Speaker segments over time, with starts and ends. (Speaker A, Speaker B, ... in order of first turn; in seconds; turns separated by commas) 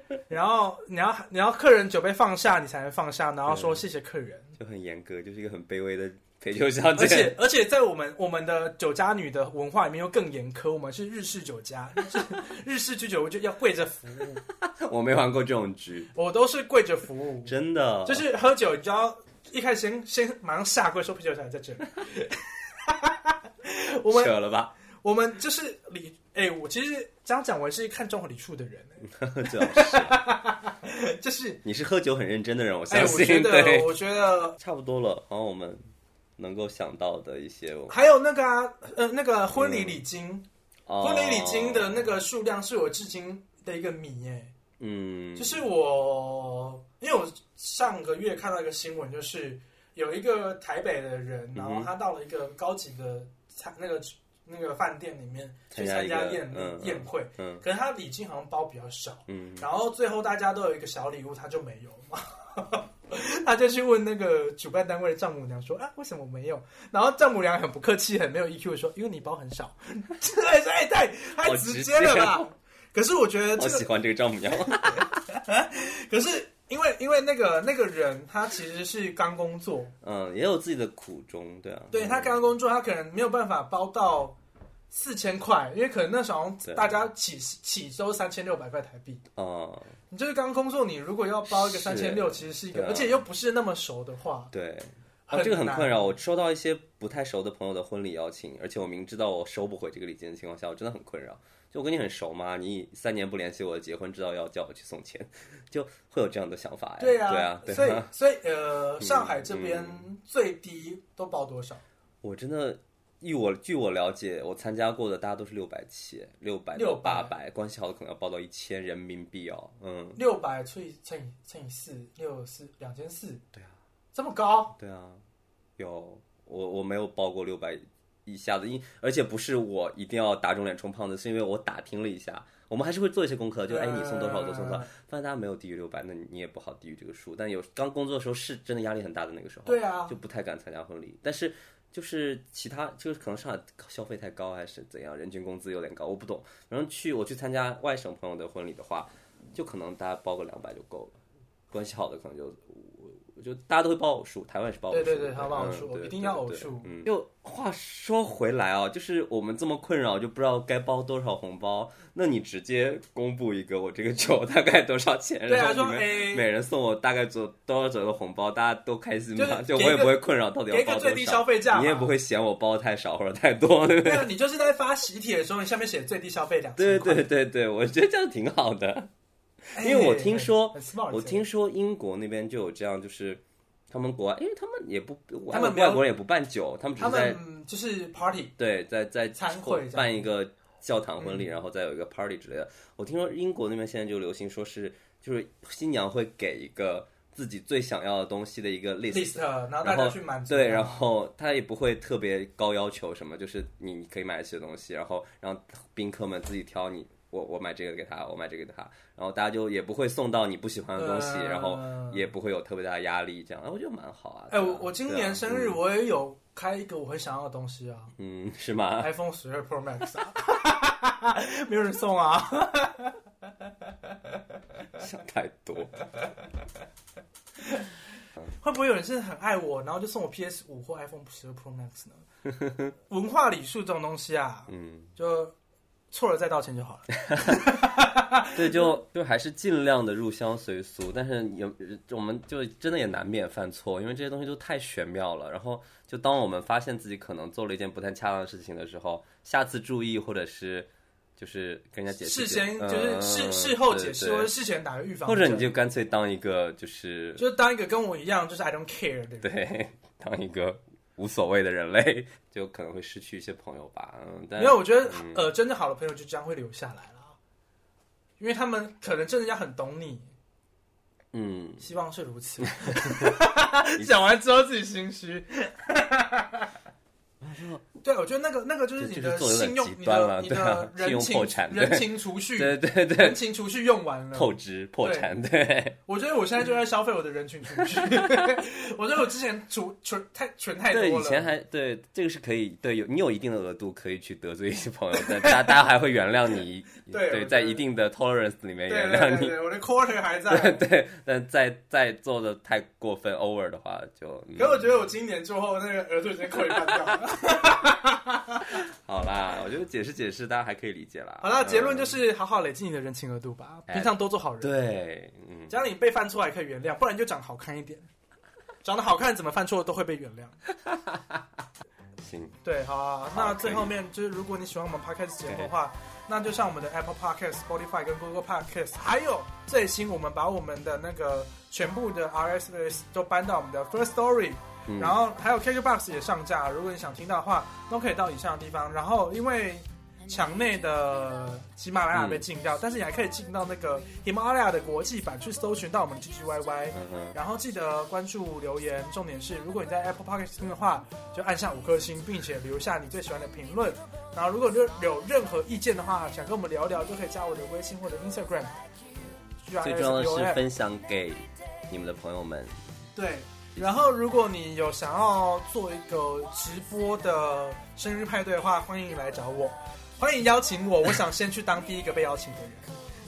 Speaker A: 0.3-4.5, Speaker B: 3.5-3.8, Speaker B: 4.6-7.4, Speaker A: 7.0-14.4, Speaker B: 14.6-16.1, Speaker A: 16.1-24.3, Speaker B: 17.4-18.3, Speaker B: 24.1-24.8, Speaker A: 25.0-31.6, Speaker B: 29.1-30.2, Speaker B: 31.6-33.9, Speaker A: 32.9-34.6, Speaker B: 34.6-35.8, Speaker B: 36.4-38.0, Speaker A: 37.9-40.5, Speaker B: 39.5-40.0, Speaker B: 40.9-42.1, Speaker A: 41.0-44.5, Speaker B: 44.8-45.6, Speaker A: 45.4-73.9, Speaker B: 51.5-51.9, Speaker B: 55.7-57.6, Speaker B: 59.3-59.7, Speaker B: 71.4-72.5, Speaker B: 73.6-75.1, Speaker A: 74.8-79.9, Speaker B: 80.0-82.3, Speaker A: 81.9-84.4, Speaker A: 84.9-89.2, Speaker B: 86.6-87.0, Speaker B: 89.4-89.9, Speaker A: 90.1-94.5, Speaker B: 91.5-93.2, Speaker B: 94.5-108.1, Speaker A: 95.3-96.2, Speaker A: 107.0-111.8, Speaker B: 109.0-110.1, Speaker B: 112.2-120.2, Speaker A: 116.8-117.3, Speaker A: 120.2-123.4, Speaker A: 124.2-124.8, Speaker B: 124.8-125.2, Speaker B: 125.8-151.2, Speaker A: 133.7-134.9, Speaker A: 139.7-140.2, Speaker B: 151.7-174.3, Speaker A: 154.9-156.9, Speaker A: 165.5-166.4, Speaker A: 169.3-172.1, Speaker A: 174.0-177.3, Speaker B: 176.8-179.1, Speaker B: 179.7-187.4, Speaker A: 179.8-181.4, Speaker A: 185.5-186.1, Speaker A: 187.0-188.5, Speaker B: 188.6-215.8, Speaker A: 189.3-190.3, Speaker A: 191.2-191.5, Speaker A: 199.1-201.1, Speaker A: 211.0-212.3, Speaker A: 214.5-218.1, Speaker B: 218.2-219.1, Speaker A: 219.0-223.2, Speaker B: 225.0-225.9, Speaker A: 227.6-227.9, Speaker A: 228.6-232.2, Speaker B: 232.5-232.9, Speaker A: 233.1-235.5, Speaker B: 234.7-235.1, Speaker A: 236.1-238.9, Speaker B: 237.3-237.6, Speaker B: 238.5-254.5, Speaker A: 252.2-255.7, Speaker B: 255.3-257.4, Speaker A: 257.4-259.6, Speaker B: 259.4-265.5, Speaker A: 264.6-267.4, Speaker A: 268.4-270.3, Speaker B: 271.3-271.9, Speaker A: 271.8-276.7, Speaker B: 272.7-274.1, Speaker B: 277.4-277.8, Speaker A: 278.0-285.3, Speaker B: 279.0-283.4, Speaker B: 284.3-286.0, Speaker A: 286.1-291.5, Speaker B: 287.8-288.5, Speaker B: 290.9-299.6, Speaker A: 295.2-295.8, Speaker A: 297.1-297.8, Speaker A: 298.9-300.8, Speaker B: 300.5-304.9, Speaker A: 304.6-308.8, Speaker B: 308.8-312.2, Speaker A: 311.4-314.7, Speaker B: 313.9-315.8, Speaker A: 315.7-318.1, Speaker A: 318.8-320.6, Speaker B: 320.8-321.4, Speaker B: 322.2-322.6, Speaker A: 322.6-358.7, Speaker B: 323.3-323.9, Speaker B: 334.9-335.2, Speaker B: 342.1-342.5, Speaker B: 346.9-347.4, Speaker A: 359.6-360.6, Speaker B: 359.8-362.7, Speaker A: 363.2-372.9